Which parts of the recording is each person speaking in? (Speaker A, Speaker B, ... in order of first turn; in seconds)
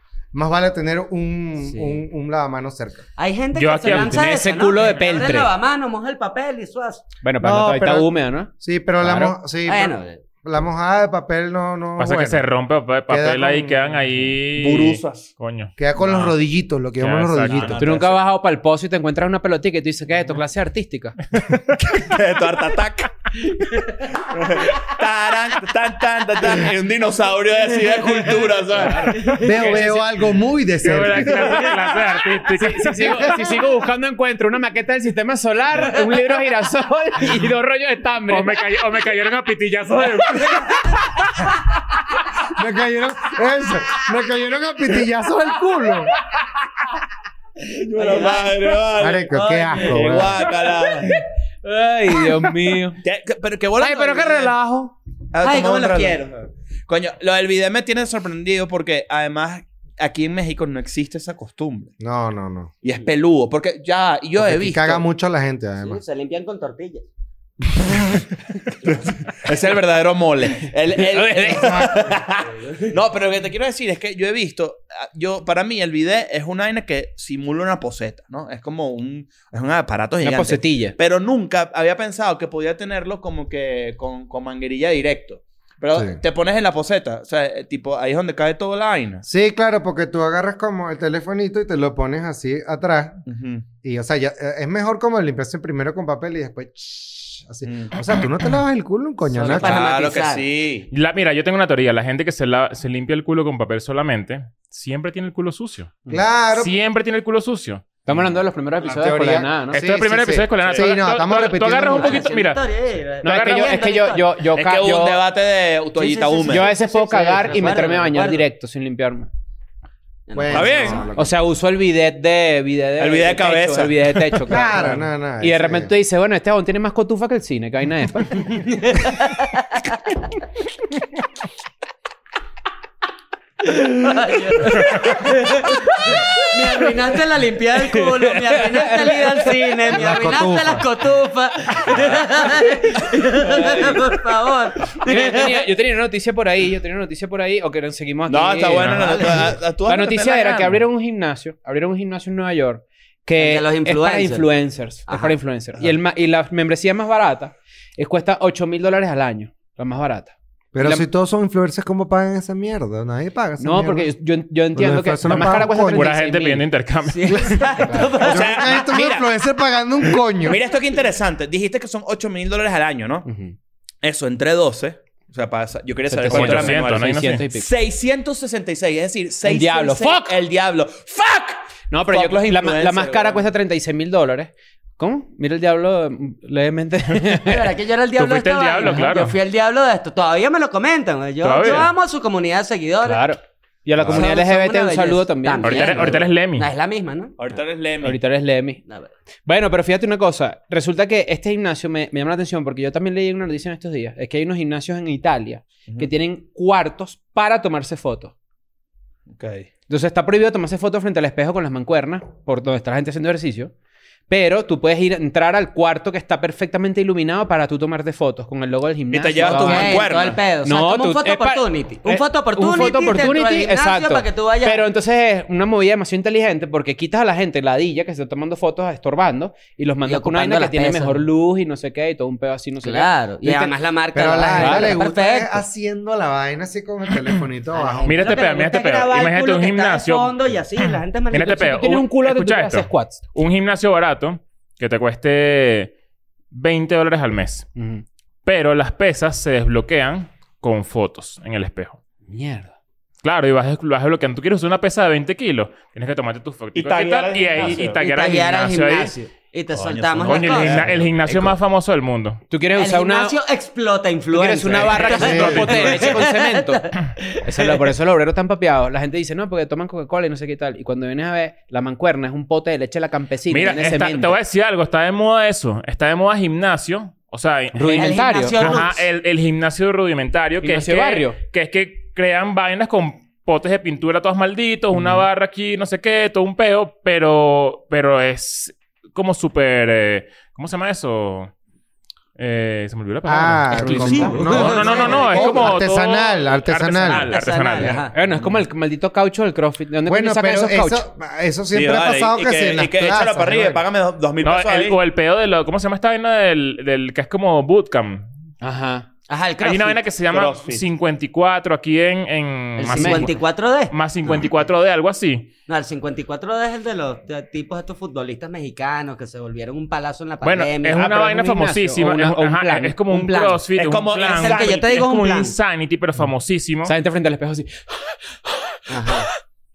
Speaker A: 0.3-3.0, 7.4-12.5, 13.1-14.3, 15.8-18.1, 29.4-31.7, 42.5-46.1, 49.0-50.5, 62.0-62.7, 64.4-66.0, 71.5-72.1, 86.0-86.2, 89.2-93.2, 93.8-99.8, 106.1-106.8, 108.8-112.3, 120.3-121.4, 124.5-125.9, 139.9-140.9, 160.7-164.1, 164.7-166.1, 167.3-170.6, 234.1-238.3, 265.2-265.8, 293.3-297.9, 300.1-303.8
Speaker B: 1.6-2.0, 3.2-7.0, 9.7-10.2, 28.1-28.4, 29.2-29.7, 40.3-40.8, 48.0-48.7, 49.3-50.5, 55.4-56.4, 65.8-67.1, 99.3-100.5, 111.9-114.3, 116.0-118.4, 120.3-121.1, 128.5-129.8, 133.6-145.7, 153.4-155.3, 167.1-168.8, 187.4-193.3, 194.1-197.6, 198.9-199.1, 219.4-224.9, 230.1-231.2, 232.8-235.6, 237.7-241.9, 257.6-260.8, 262.8-267.9, 278.0-279.0, 293.9-295.8, 297.1-298.1, 309.3-310.0, 312.8-313.9, 315.7-321.1, 323.1-323.6, 324.3-325.6, 328.9-329.3
Speaker C: 3.5-4.3, 12.0-15.7, 17.0-17.7, 29.3-30.0, 30.8-33.3, 38.3-41.1, 100.9-106.0, 106.5-107.9, 109.7-112.6, 113.2-113.8, 165.9-167.7, 176.3-177.4, 188.2-189.4, 191.4-191.9, 195.6-196.7, 238.1-245.9, 246.5-247.7, 248.4-252.0, 253.2-259.1, 260.2-262.4, 264.9-266.2, 273.5-291.5, 292.4-298.1, 304.4-308.3, 309.6-313.4, 313.9-315.5, 320.4-326.9
Speaker D: 3.8-5.5, 7.2-9.3, 17.8-21.2, 28.8-29.1, 32.5-38.6, 51.0-53.0, 53.8-55.0, 80.2-81.0, 108.0-109.9, 113.2-115.2, 116.5-119.3, 121.2-128.5, 134.7-134.9, 135.7-136.9, 137.8-139.9, 143.3-144.1, 144.9-161.1, 163.6-166.7, 173.3-173.6, 176.1-177.7, 179.4-180.4, 181.9-187.7, 193.0-196.2, 198.0-198.8, 199.4-208.3, 209.9-213.7, 214.3-220.1, 220.6-233.7, 234.5-234.9, 241.4-243.2, 247.8-248.0, 252.3-252.7, 262.5-263.4, 264.3-266.9, 267.4-274.4, 277.7-278.8, 280.6-281.4, 284.9-285.3, 293.8-294.3, 298.1-301.0, 308.6-309.1, 312.9-313.3, 320.9-323.5, 326.8-328.2
Speaker E: 14.5-15.3, 16.0-16.3, 17.4-18.2, 21.8-29.8, 47.7-51.1, 53.0-54.5, 55.3-56.3, 56.9-61.9, 62.8-65.0, 68.8-89.2, 93.3-93.7, 97.6-98.2, 99.5-100.9, 110.6-110.9, 114.5-116.7, 120.5-121.1, 123.0-124.4, 141.8-142.3, 148.3-150.8, 168.2-169.3, 170.4-173.3, 174.0-183.5, 197.4-198.2, 209.3-209.7, 219.1-220.4, 256.7-258.0, 259.7-261.6, 301.7-305.0, 310.3-310.8, 323.7-325.0